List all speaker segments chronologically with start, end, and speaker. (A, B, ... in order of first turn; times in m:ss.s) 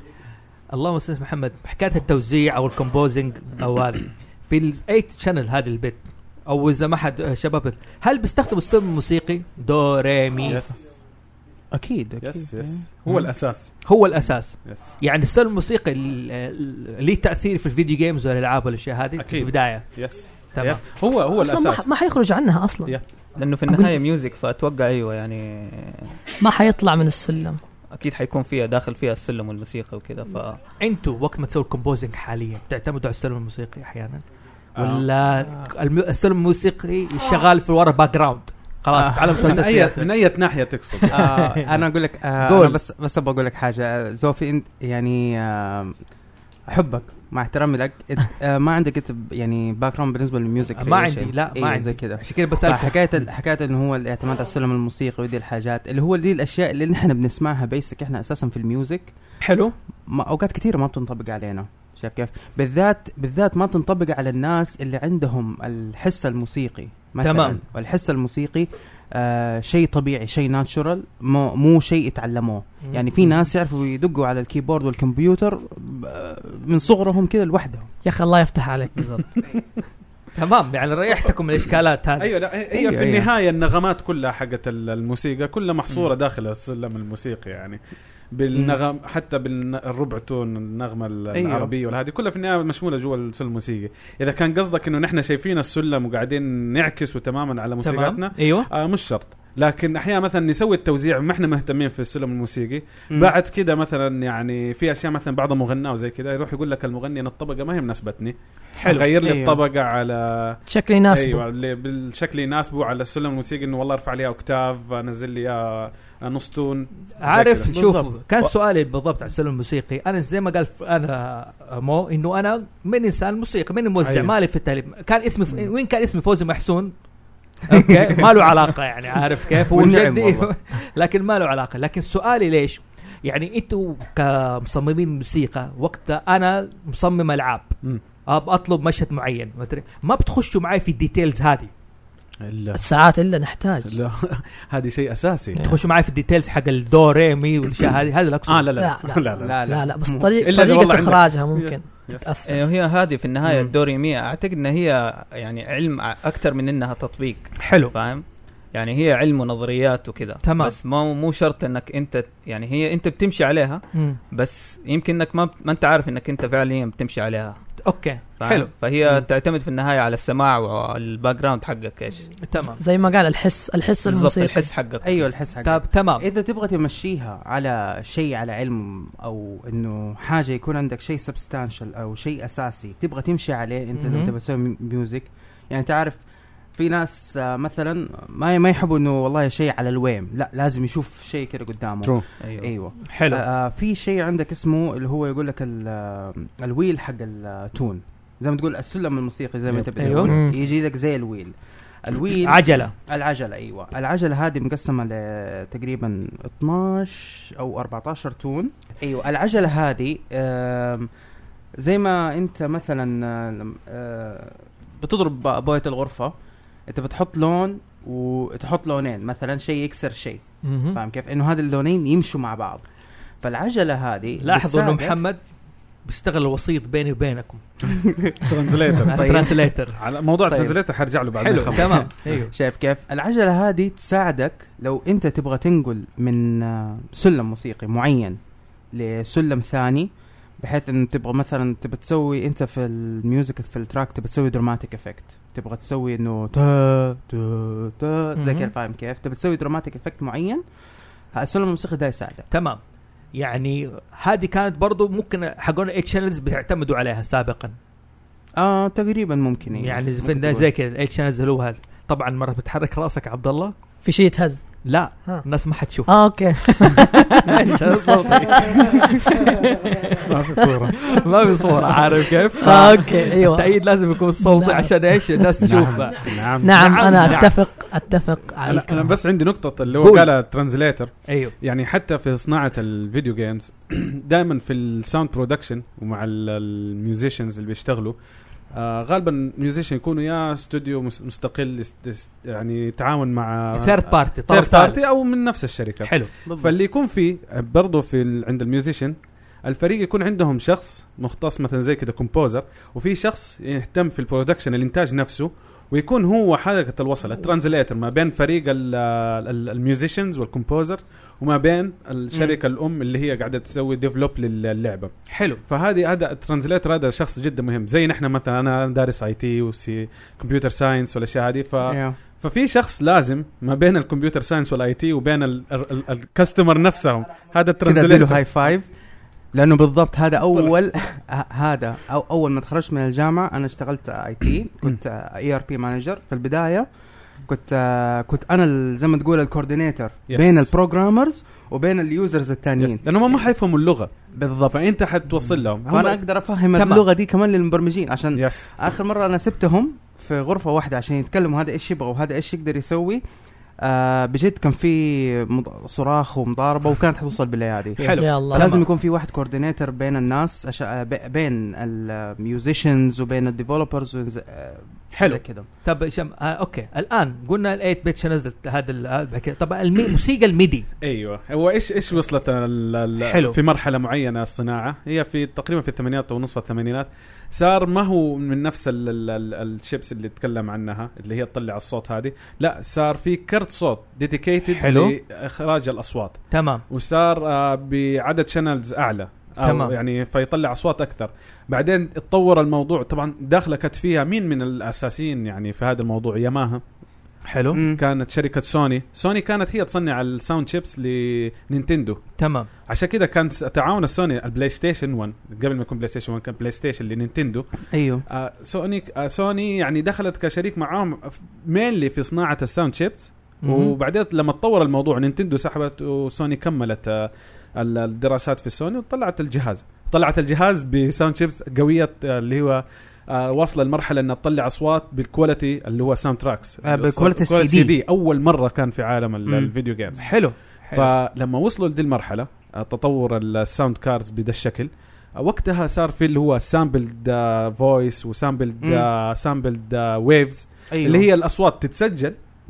0:00.7-0:10.7 A
0:10.5-0:10.7 B
0:11.7-0:12.8 C
0:12.2-0:13.8 B
0:13.8-0:19.9 A
0:14.6-0:14.9 B
0:19.2-0:21.8 B
0:20.5-0:20.8 A
0:21.4-0:23.0 D
0:23.4-0:26.2 E
0:23.7-0:24.0 D
0:26.4-0:27.6 D
0:27.9-0:30.6 E
0:30.8-0:34.2 A
0:34.8-0:35.7 B
0:34.8-0:40.2 A
0:38.9-0:39.4 C
0:39.4-0:41.2 B
0:41.0-0:41.8 A
0:41.1-0:46.0 C
0:42.4-0:42.8 A
0:46.7-0:59.1 C
0:50.8-0:53.0 A
0:59.4-0:59.7 A
1:00.1-1:17.9 C
1:07.2-1:07.6 A
1:18.0-1:19.2 D
1:19.0-1:19.2 E
1:20.4-1:22.3 A
1:22.2-1:27.8 B
1:22.7-1:23.3 C
1:28.3-1:57.7 B
1:28.5-1:28.8 C
1:31.3-1:31.7 C
1:37.8-1:38.7 A
1:48.8-1:49.0 A
1:49.2-1:49.6 C
1:50.7-1:51.4 D
1:57.2-2:06.9 A
1:57.7-1:58.2 C
2:04.0-2:04.3 B
2:07.7-2:17.7 A
2:07.7-2:08.2 C
2:09.6-2:10.5 C
2:18.3-2:21.7 A
2:22.4-2:22.8 B
2:22.7-2:23.9 D
2:23.9-2:25.6 B
2:25.6-2:28.7 A
2:28.5-2:29.6 B
2:28.8-2:32.6 D
2:29.4-2:30.5 C
2:30.4-2:32.3 B
2:32.4-2:47.6 E
2:33.5-2:33.7 C
2:37.6-2:37.9 A
2:40.4-2:40.8 A
2:43.9-2:44.2 A
2:47.8-2:48.7 A
2:48.4-2:52.3 E
2:52.4-2:52.8 A
2:52.6-2:54.7 D
2:54.0-2:55.3 E
2:55.0-3:06.2 C
2:55.6-2:56.3 A
3:04.0-3:04.3 A
3:06.8-3:31.1 C
3:12.4-3:12.7 E
3:13.1-3:13.4 A
3:19.7-3:20.4 B
3:20.0-3:20.3 A
3:20.3-3:20.6 D
3:22.4-3:22.9 A
3:31.8-3:36.3 C
3:36.9-3:42.8 C
3:40.6-3:41.0 A
3:43.4-3:45.2 C
3:44.4-3:45.4 A
3:46.0-3:47.6 A
3:47.9-3:48.4 C
3:48.4-3:49.3 B
3:49.1-3:50.0 A
3:49.1-3:49.7 C
3:50.0-3:52.2 B
3:50.5-3:50.8 C
3:51.4-3:52.5 A
3:51.8-3:58.4 C
3:58.9-4:10.6 C
4:08.4-4:08.7 A
4:11.3-4:12.5 C
4:12.5-4:12.8 A
4:13.4-4:17.8 A
4:18.6-4:20.7 C
4:19.8-4:23.8 A
4:24.0-4:24.6 D
4:24.8-4:30.3 A
4:26.1-4:29.3 D
4:30.2-4:31.0 B
4:31.0-4:37.7 A
4:32.6-4:33.8 D
4:34.4-4:35.5 D
4:35.6-4:37.6 B
4:36.6-4:39.2 D
4:38.6-4:48.2 B
4:40.0-4:40.3 A
4:41.3-4:41.5 A
4:48.7-5:15.1 B
4:53.7-4:55.0 A
4:56.0-4:56.3 A
4:56.5-4:56.8 C
5:15.3-5:15.6 A
5:15.6-5:28.4 B
5:21.9-5:22.2 C
5:27.8-5:28.9 C
5:29.5-5:36.9 C
5:37.5-5:43.0 C
5:40.3-5:40.7 B
5:42.8-5:46.2 B
5:45.9-5:53.2 C
5:46.8-5:47.0 A
5:48.4-5:48.7 B
5:53.8-6:05.7 C
5:58.0-5:58.9 A
5:58.2-5:58.7 D
6:05.1-6:10.9 A
6:11.0-6:36.8 B
6:13.2-6:13.6 A
6:24.7-6:25.1 A
6:26.5-6:26.8 A
6:29.6-6:30.0 A
6:37.5-6:37.8 A
6:37.7-6:38.0 C
6:37.9-6:42.3 B
6:42.4-6:42.7 A
6:42.9-6:47.7 B
6:47.9-6:48.2 C
6:48.3-7:10.3 B
6:53.6-6:53.9 A
7:06.8-7:08.0 C
7:09.5-7:09.7 C
7:10.2-7:11.1 A
7:10.9-7:22.4 B
7:18.8-7:19.1 C
7:20.9-7:21.3 C